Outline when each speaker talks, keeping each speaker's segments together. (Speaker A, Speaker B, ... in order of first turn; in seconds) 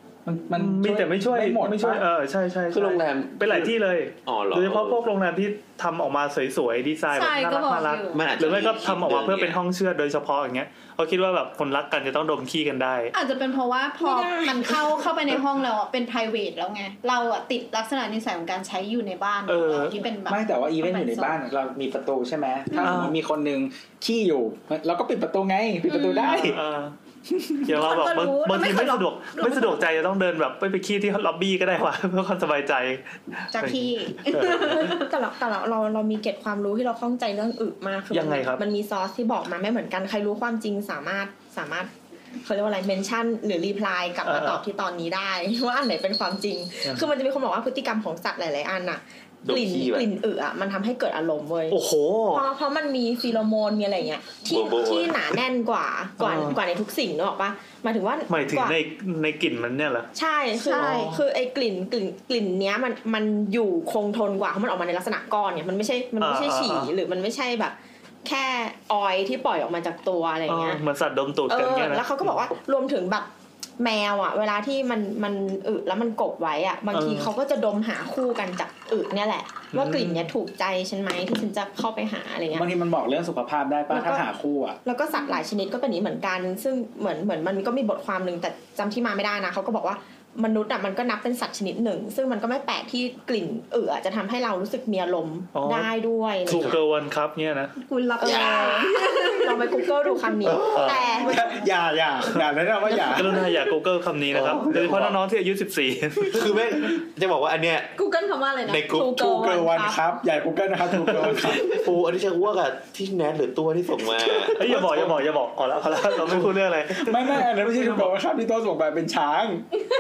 Speaker A: 0.2-2.0, 20.3-26.6, 27.3-27.7, 82.5-84.8, 101.2-103.4, 109.1-111.8, 114.6-115.2, 117.0-119.7
Speaker B: 0.5-13.1, 19.5-19.9, 22.8-23.1, 26.4-26.9, 27.7-35.0, 38.1-38.6, 44.3-44.6, 51.7-52.4, 56.2-56.6, 58.3-60.1, 60.8-61.2, 66.2-66.9, 70.5-72.4, 76.9-77.3, 79.7-80.3, 95.5-95.9, 96.5-97.8, 100.7-101.0, 103.1-106.4, 114.6-118.1
Speaker C: 2.7-5.0, 8.1-9.6, 49.4-50.1, 54.5-55.4, 98.2-98.8, 100.5-101.0, 104.3-105.2, 106.3-107.9, 108.7-109.6, 111.4-114.7
Speaker D: 7.1-8.3, 13.1-21.4, 25.9-26.5, 27.7-29.9, 33.5-35.1, 60.6-61.2, 97.8-101.5, 108.0-109.0
Speaker E: 14.0-14.8, 34.6-41.9, 42.4-51.8, 52.3-58.8, 60.1-70.8, 71.5-82.7, 83.9-84.2, 84.8-96.8, 98.2-101.4, 108.9-110.0